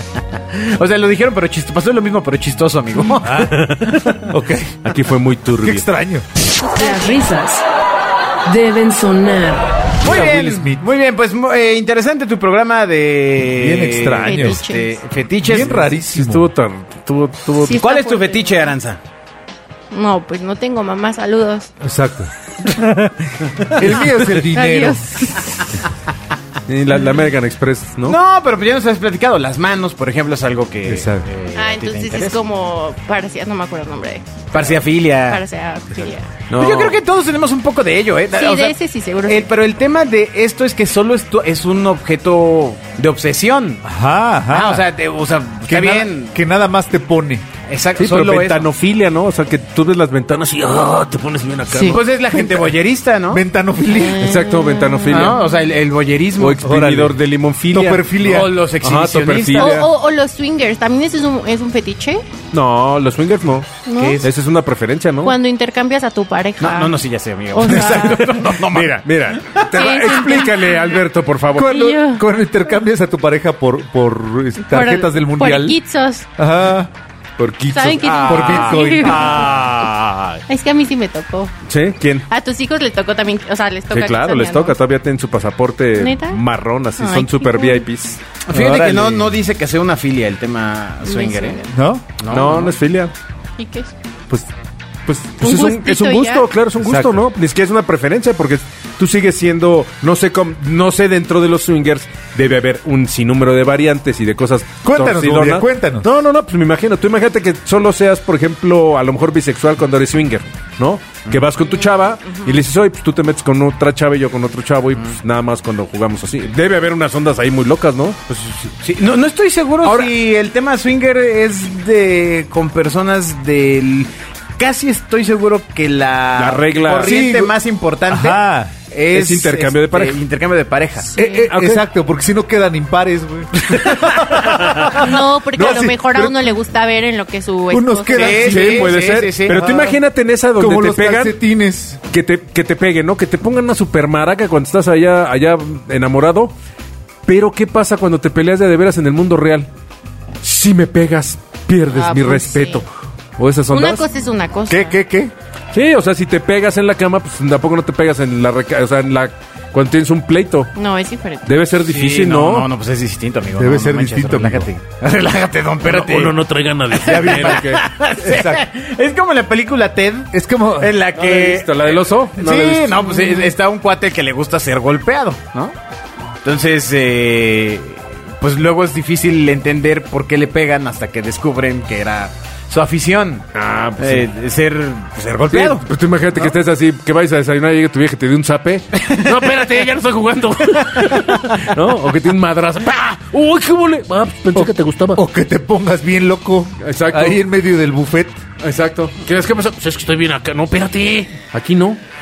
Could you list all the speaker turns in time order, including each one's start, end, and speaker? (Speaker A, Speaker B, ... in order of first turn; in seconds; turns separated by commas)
Speaker A: 0.4-3.8, Speaker B: 3.2-3.7, Speaker C: 3.3-4.2, Speaker B: 4.3-4.8, Speaker C: 4.8-5.9, Speaker B: 5.6-6.3, Speaker D: 6.6-7.2, Speaker E: 6.7-7.6, Speaker E: 8.4-9.8, Speaker A: 10.0-15.9, Speaker B: 10.0-10.8, Speaker B: 13.5-14.6, Speaker D: 14.2-15.0, Speaker B: 15.4-16.5, Speaker C: 16.1-17.9, Speaker D: 17.6-18.5, Speaker A: 17.6-19.0, Speaker D: 19.9-21.7, Speaker B: 21.8-25.4, Speaker D: 24.4-25.7, Speaker C: 26.7-28.2, Speaker A: 28.1-32.4, Speaker B: 30.9-31.3, Speaker D: 31.5-36.3, Speaker A: 34.5-35.4, Speaker C: 36.5-37.0, Speaker A: 36.5-43.8, Speaker D: 38.3-39.5, Speaker B: 43.8-44.9, Speaker A: 44.5-46.4, Speaker B: 45.7-47.5, Speaker A: 47.7-48.7, Speaker C: 48.0-52.0, Speaker D: 51.7-52.0, Speaker A: 51.8-53.4, Speaker B: 53.3-54.3, Speaker D: 53.9-55.6, Speaker C: 54.1-55.4, Speaker A: 55.1-56.6, Speaker C: 56.4-59.9, Speaker B: 56.6-57.2, Speaker B: 57.7-58.5, Speaker A: 58.2-59.8, Speaker D: 59.5-62.2, Speaker C: 62.5-65.4, Speaker D: 63.9-64.2, Speaker A: 64.0-64.3, Speaker D: 65.2-68.4, Speaker A: 66.6-69.9, Speaker C: 67.9-71.9, Speaker D: 69.7-71.0, Speaker B: 71.5-75.8, Speaker D: 71.6-72.2, Speaker D: 74.7-76.3, Speaker B: 76.4-76.9, Speaker C: 77.4-80.4, Speaker D: 77.7-79.5, Speaker B: 78.2-79.9, Speaker D: 80.5-81.5, Speaker C: 81.7-82.3, Speaker D: 82.3-84.8, Speaker C: 83.9-88.2, Speaker D: 86.0-86.4, Speaker D: 87.0-87.8, Speaker A: 88.5-92.7, Speaker B: 88.5-89.3, Speaker D: 91.0-91.7, Speaker B: 91.7-92.0, Speaker C: 92.3-93.1, Speaker D: 93.6-93.9, Speaker C: 95.1-118.2, Speaker D: 95.4-96.5, Speaker B: 96.8-97.2, Speaker B: 104.8-106.1, Speaker A: 118.3-131.1, Speaker C: 119.8-120.1, Speaker C: 126.4-127.1, Speaker B: 126.9-127.5, Speaker B: 128.1-128.7, Speaker C: 129.1-130.2, Speaker B: 131.1-136.5, Speaker D: 131.2-131.5, Speaker C: 131.5-131.8, Speaker A: 133.8-134.6, Speaker C: 134.0-134.9, Speaker D: 134.9-138.5, Speaker C: 135.6-135.8, Speaker B: 137.7-139.0, Speaker A: 138.1-139.8, Speaker C: 138.4-141.4, Speaker B: 139.5-140.0, Speaker B: 140.6-142.0, Speaker C: 142.1-146.5, Speaker C: 147.3-149.7, Speaker C: 150.4-152.9, Speaker D: 151.9-152.8, Speaker C: 153.4-154.0, Speaker D: 153.7-155.0, Speaker B: 154.7-155.3, Speaker C: 155.7-160.7, Speaker D: 160.8-161.5, Speaker C: 161.4-162.7, Speaker A: 161.8-166.4, Speaker B: 163.6-164.7, Speaker C: 165.8-167.8, Speaker A: 166.9-175.8, Speaker B: 167.0-168.6, Speaker B: 170.3-170.9, Speaker C: 171.1-173.2, Speaker A: 176.4-183.5, Speaker C: 183.5-184.3, Speaker A: 184.0-185.8, Speaker C: 185.5-195.2, Speaker A: 191.0-191.6, Speaker B: 194.5-198.4, Speaker C: 196.8-197.4, Speaker C: 198.6-202.0